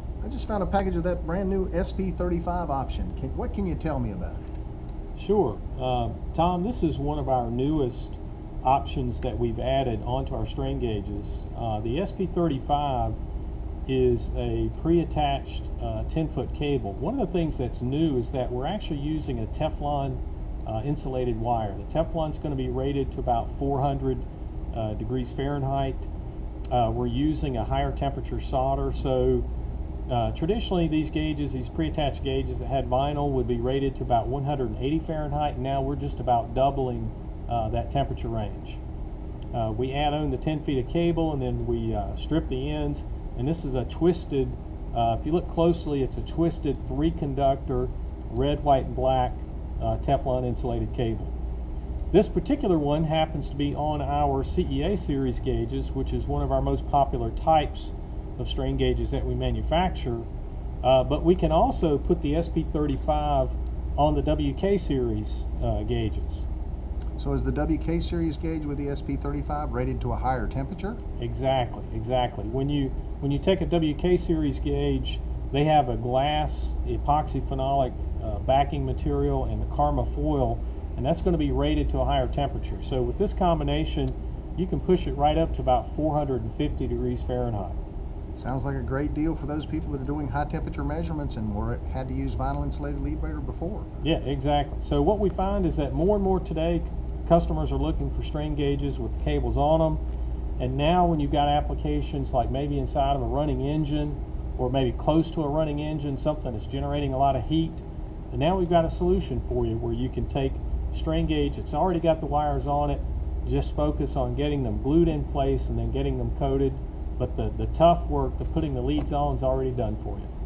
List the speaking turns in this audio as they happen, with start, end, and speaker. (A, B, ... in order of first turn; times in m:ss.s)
0:00.2-0:04.5 A
0:05.2-0:13.2 B
0:13.9-0:26.1 B
0:26.7-0:29.5 B
0:30.1-0:38.8 B
0:39.5-0:51.3 B
0:52.1-1:00.3 B
1:00.8-1:06.4 B
1:07.2-1:11.0 A
1:11.2-1:27.8 B
1:28.4-1:33.9 A
1:34.0-1:40.0 B
1:40.6-2:00.3 B